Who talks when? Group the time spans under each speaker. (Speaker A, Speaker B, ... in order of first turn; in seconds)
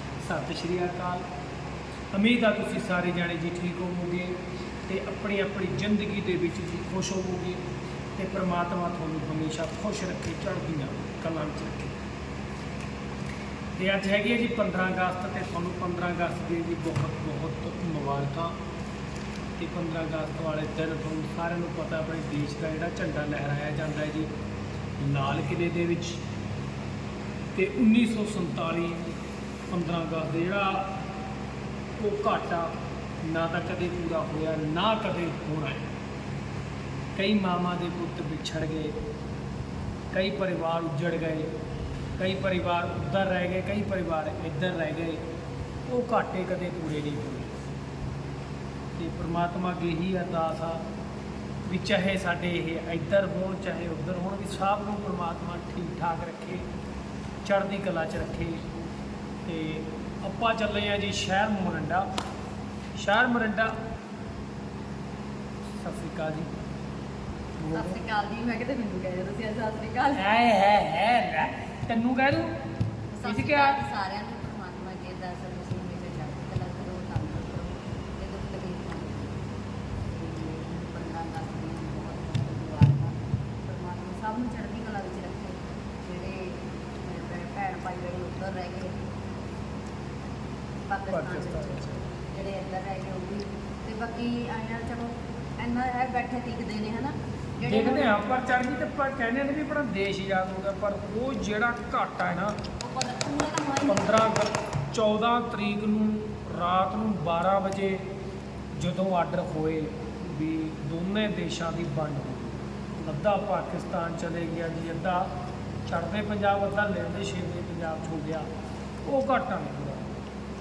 Speaker A: 0.2-1.2, 2.1-7.6, 8.2-12.0, 13.8-18.6, 19.6-24.3, 25.0-26.2, 27.5-29.1, 29.7-30.9, 32.0-35.9, 37.1-39.0, 40.1-41.5, 42.2-45.2, 45.9-47.5, 49.0-50.8, 51.7-56.7, 57.4-58.6, 59.4-62.1, 63.0-63.8, 65.8-66.5, 67.6-68.0, 70.1-72.5, 73.2-73.8, 91.1-92.1, 97.6-102.5, 103.8-108.0, 108.7-115.3, 115.9-118.5, 119.0-120.2
Speaker B: 67.7-70.2, 73.1-79.5, 80.0-89.0, 90.9-98.4, 102.8-104.3